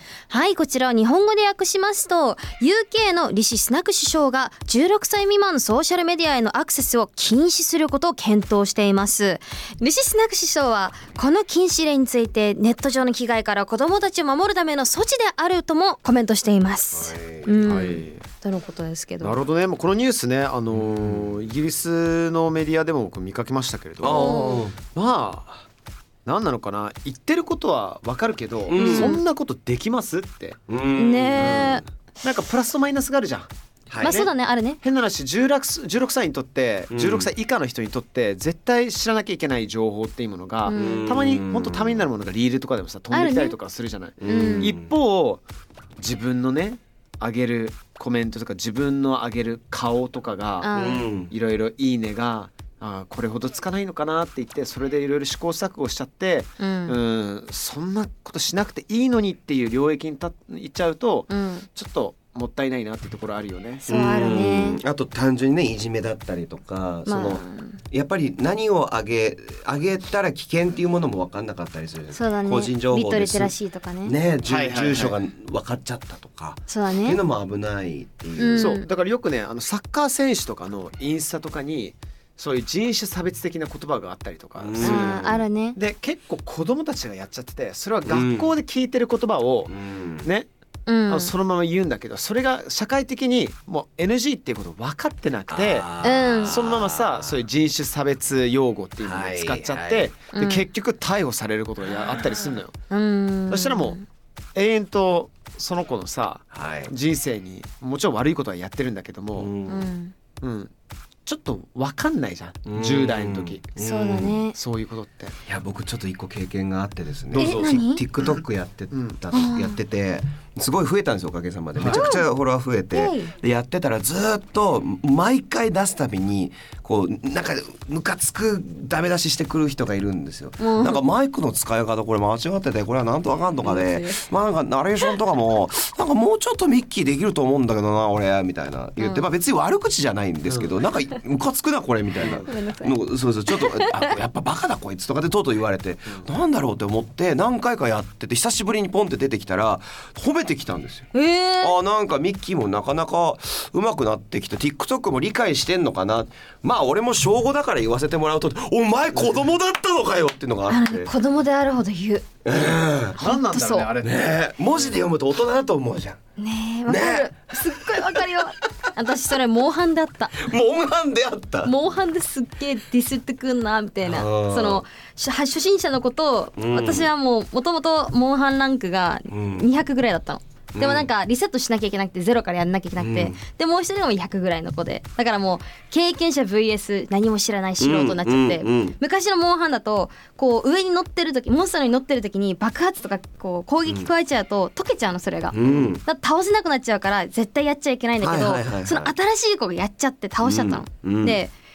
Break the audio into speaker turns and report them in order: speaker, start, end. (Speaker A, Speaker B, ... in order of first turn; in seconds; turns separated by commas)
Speaker A: 0.3-19.4, Speaker B: 16.9-17.7, Speaker C: 17.6-18.2, Speaker C: 19.2-25.6, Speaker B: 24.0-24.8, Speaker A: 24.1-24.7, Speaker C: 26.3-30.6, Speaker B: 28.7-29.2, Speaker A: 28.7-29.2, Speaker B: 30.7-31.8, Speaker A: 31.0-31.8, Speaker C: 31.4-33.5, Speaker B: 33.9-34.3, Speaker A: 34.0-34.8, Speaker C: 34.0-34.3, Speaker C: 34.8-45.4, Speaker B: 36.9-37.3, Speaker A: 40.7-41.1, Speaker B: 40.7-42.1, Speaker A: 43.1-43.5, Speaker B: 44.2-44.9, Speaker A: 44.2-44.8, Speaker C: 46.0-50.7, Speaker A: 50.6-51.1, Speaker B: 50.7-51.3, Speaker C: 51.3-63.9, Speaker A: 56.6-57.0, Speaker A: 61.3-61.7, Speaker B: 63.9-73.5, Speaker A: 63.9-64.8, Speaker A: 67.1-67.8, Speaker A: 72.1-74.2, Speaker B: 74.0-78.8, Speaker C: 74.5-75.2, Speaker A: 76.7-77.2, Speaker A: 78.4-78.9, Speaker C: 78.6-90.5, Speaker B: 84.6-85.5, Speaker A: 84.8-85.8, Speaker B: 88.0-88.5, Speaker B: 89.7-90.3, Speaker A: 90.9-91.3, Speaker C: 91.1-95.9, Speaker B: 95.5-97.4, Speaker A: 96.0-96.6, Speaker C: 96.5-102.7, Speaker B: 99.0-100.1, Speaker A: 100.3-100.7, Speaker A: 102.9-104.0, Speaker C: 103.5-104.0, Speaker C: 104.5-109.5, Speaker B: 106.5-106.9, Speaker B: 109.4-109.9, Speaker A: 109.7-110.1, Speaker C: 110.4-110.7, Speaker C: 111.3-113.7, Speaker B: 112.7-114.4, Speaker A: 113.8-114.6, Speaker C: 114.5-115.4, Speaker B: 115.5-151.1, Speaker C: 117.3-118.4, Speaker A: 117.4-118.0, Speaker C: 118.9-119.2, Speaker A: 119.3-119.8, Speaker C: 121.8-122.0, Speaker A: 121.9-122.3, Speaker A: 122.9-123.3, Speaker A: 130.6-131.0, Speaker A: 133.6-134.2, Speaker A: 139.0-139.3, Speaker A: 142.5-144.1, Speaker A: 151.1-151.8, Speaker B: 151.6-161.1, Speaker A: 160.7-162.3, Speaker B: 162.4-163.2, Speaker A: 163.2-163.9, Speaker C: 163.2-164.3, Speaker B: 164.0-166.2, Speaker A: 166.4-170.5, Speaker B: 166.9-168.5, Speaker B: 170.4-171.7, Speaker A: 171.7-201.5, Speaker B: 174.0-174.8, Speaker B: 176.6-177.1, Speaker B: 179.3-179.7, Speaker B: 180.8-181.1, Speaker B: 183.0-183.4, Speaker B: 187.8-189.0, Speaker B: 195.5-196.0, Speaker B: 198.2-199.1, Speaker B: 200.4-201.4